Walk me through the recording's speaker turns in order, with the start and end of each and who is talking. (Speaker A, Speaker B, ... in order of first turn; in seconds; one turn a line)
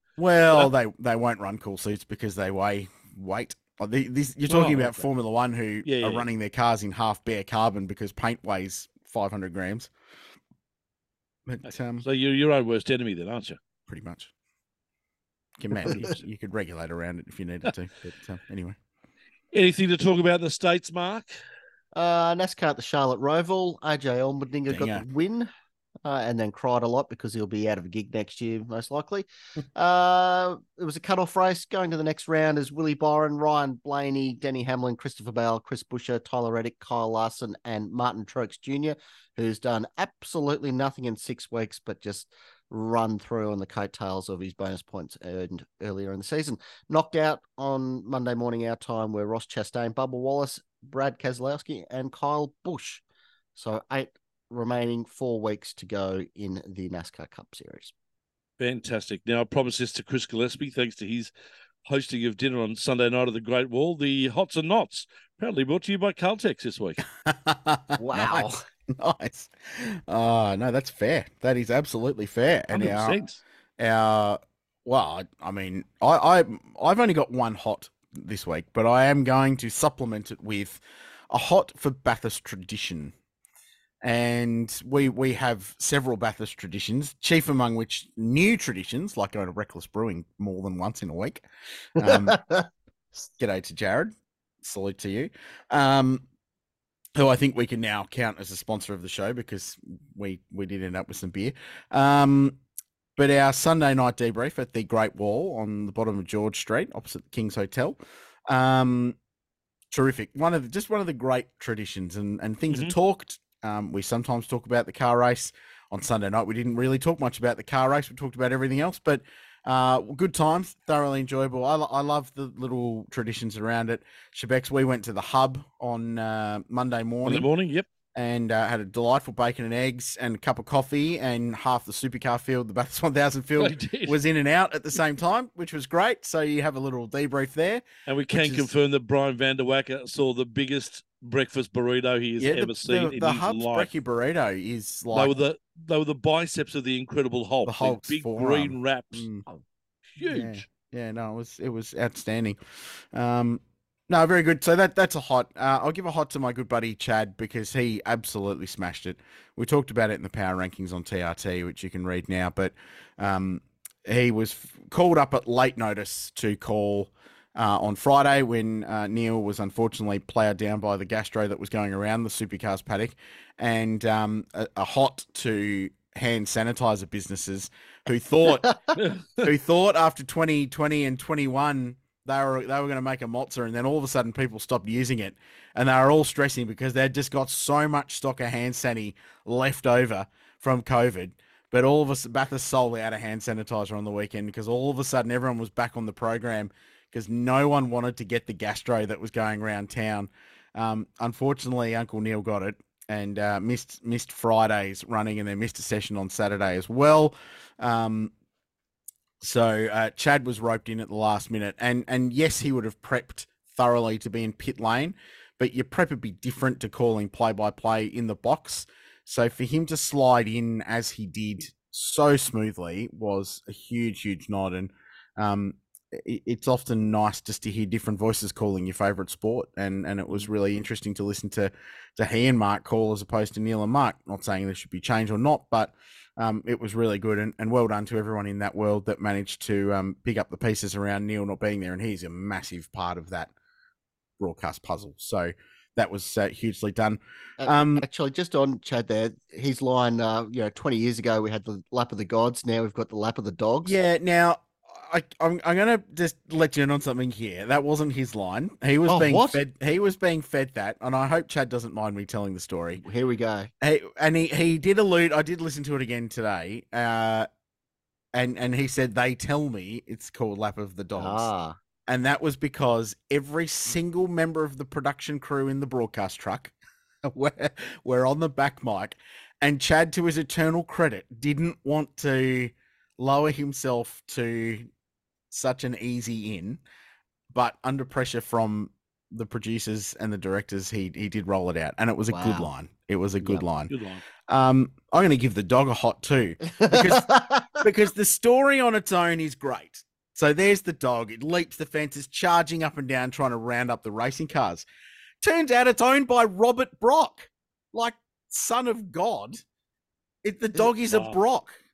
Speaker A: 0.2-9.9
Speaker B: 4.5-5.1
Speaker B: 5.8-6.3
Speaker A: 11.5-12.1
Speaker B: 11.7-13.6
Speaker A: 13.9-14.3
Speaker A: 15.6-18.8
Speaker B: 19.5-21.4
Speaker C: 21.9-25.5
Speaker A: 24.7-25.1
Speaker C: 26.1-53.0
Speaker C: 53.6-57.9
Speaker B: 58.6-61.3
Speaker B: 61.9-67.0
Speaker A: 67.2-73.2
Speaker C: 68.0-68.6
Speaker B: 72.7-73.4
Speaker A: 73.8-83.1
Speaker A: 84.0-91.4
Speaker A: 92.0-92.4
Speaker C: 92.0-92.7
Speaker A: 93.4-96.2
Speaker A: 97.2-102.6
Speaker A: 103.2-109.2
Speaker A: 109.9-127.5
Speaker B: 127.2-127.9
Speaker A: 128.1-138.7
Speaker B: 133.6-134.2
Speaker B: 138.1-143.9
Speaker A: 142.4-145.4
Speaker B: 145.1-149.3
Speaker A: 147.6-149.4
Speaker B: 150.2-150.6
Speaker A: 150.2-178.7
Speaker C: 178.5-178.9
Speaker B: 179.0-179.5
Speaker A: 179.4-208.3
Speaker A: 209.4-243.5
Speaker A: 244.4-248.1
Speaker C: 247.6-254.0
Speaker A: 253.8-263.0
Speaker C: 259.1-259.6
Speaker C: 263.0-263.7
Speaker A: 263.8-267.5
Speaker A: 268.3-271.5
Speaker C: 271.1-271.8
Speaker A: 272.1-276.7
Speaker A: 277.2-284.9
Speaker A: 285.5-286.8
Speaker A: 287.5-293.9
Speaker C: 292.3-292.7
Speaker B: 293.9-294.2
Speaker A: 294.5-297.3
Speaker C: 296.6-297.8
Speaker A: 297.8-304.9
Speaker A: 305.4-309.6
Speaker A: 310.4-311.8
Speaker B: 311.1-311.4